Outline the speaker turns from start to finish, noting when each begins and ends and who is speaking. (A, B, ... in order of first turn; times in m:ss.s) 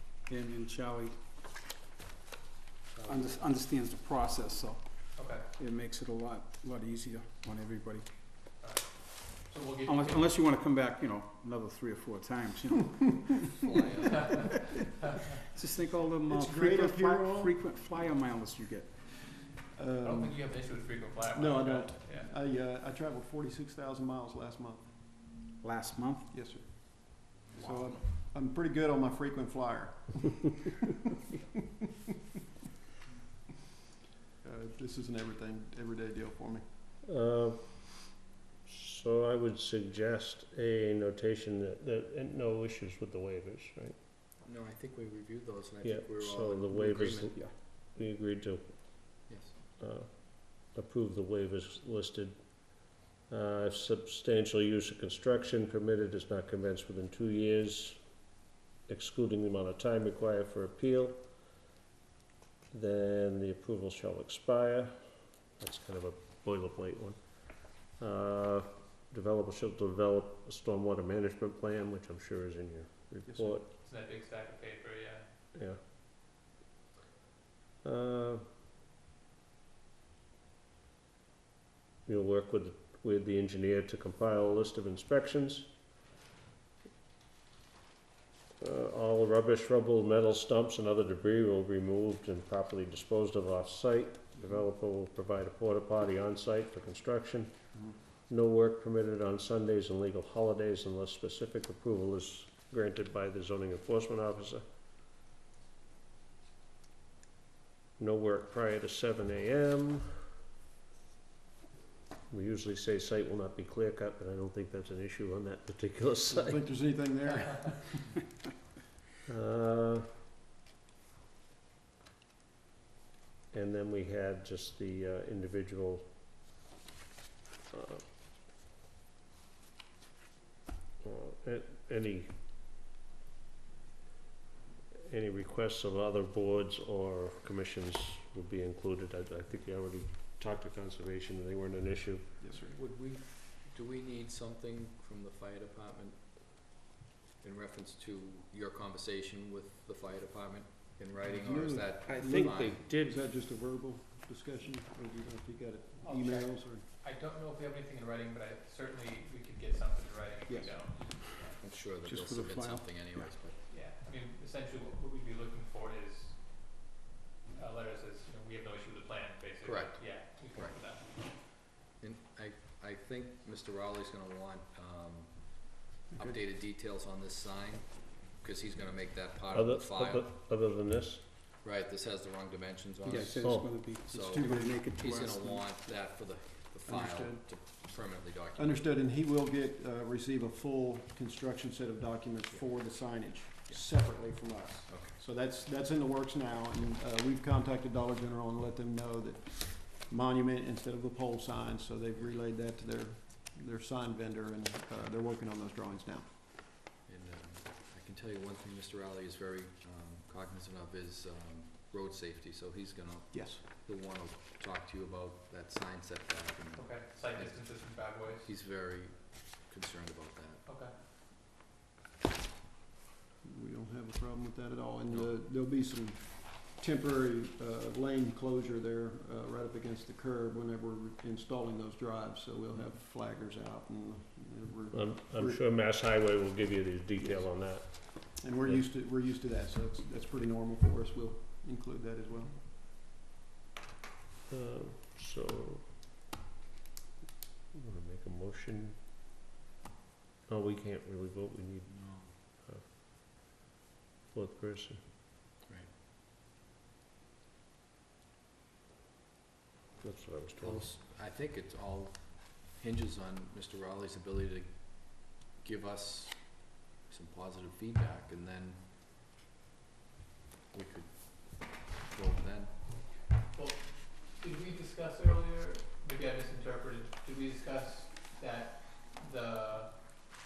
0:00.2-0:01.2 A
0:03.0-0:03.4 B
0:03.0-0:04.8 A
0:05.2-0:05.4 C
0:05.6-0:08.1 A
0:08.6-0:10.3 C
0:09.8-0:13.6 A
0:13.4-0:14.5 B
0:14.2-0:15.3 C
0:15.5-0:18.9 A
0:16.2-0:17.6 D
0:19.7-0:20.4 D
0:20.0-0:22.3 C
0:21.3-0:24.9 D
0:25.6-0:26.3 A
0:26.3-0:30.7 D
0:27.6-0:27.9 A
0:34.4-0:36.6 D
0:37.0-0:38.1 E
0:38.6-0:43.9 E
0:44.4-0:47.3 B
0:45.8-0:49.1 E
0:46.8-0:47.5 A
0:49.3-0:49.6 B
0:49.8-0:58.0 E
0:58.9-1:01.2 E
1:02.7-1:04.9 E
1:05.6-1:07.3 E
1:08.0-1:13.6 E
1:13.3-1:13.6 D
1:13.7-1:15.2 C
1:17.8-1:18.4 E
1:22.0-1:25.7 E
1:28.6-1:37.5 E
1:38.3-1:44.6 E
1:48.0-1:50.1 E
1:52.3-1:56.7 E
1:56.3-1:58.1 D
1:59.3-2:00.1 E
2:03.5-2:06.1 E
2:07.7-2:08.0 E
2:11.0-2:12.3 E
2:15.1-2:22.4 E
2:22.4-2:22.7 D
2:22.5-2:26.7 B
2:27.4-2:32.8 B
2:31.2-2:36.8 D
2:32.1-2:33.2 E
2:36.0-2:41.5 C
2:40.5-2:40.7 D
2:41.6-2:43.6 B
2:42.0-2:43.3 A
2:43.6-2:46.4 C
2:47.6-2:51.0 C
2:49.6-2:50.8 B
2:52.0-3:00.3 B
2:59.5-3:01.2 E
3:01.6-3:08.9 B
3:03.0-3:05.7 A
3:03.4-3:03.7 E
3:04.1-3:04.7 D
3:06.8-3:07.4 D
3:08.5-3:26.3 D
3:14.9-3:15.2 B
3:27.0-3:40.6 B
3:33.3-3:33.6 D
3:36.7-3:38.5 C
3:40.6-3:40.9 C
3:43.4-3:55.6 D
3:54.9-3:58.8 E
3:58.0-4:02.6 D
4:04.5-4:05.9 E
4:07.7-4:09.0 E
4:10.5-4:12.8 E
4:11.9-4:12.3 B
4:14.3-4:15.0 E
4:20.0-4:20.9 E
4:20.6-4:28.8 B
4:30.7-4:32.7 B
4:33.5-4:39.9 C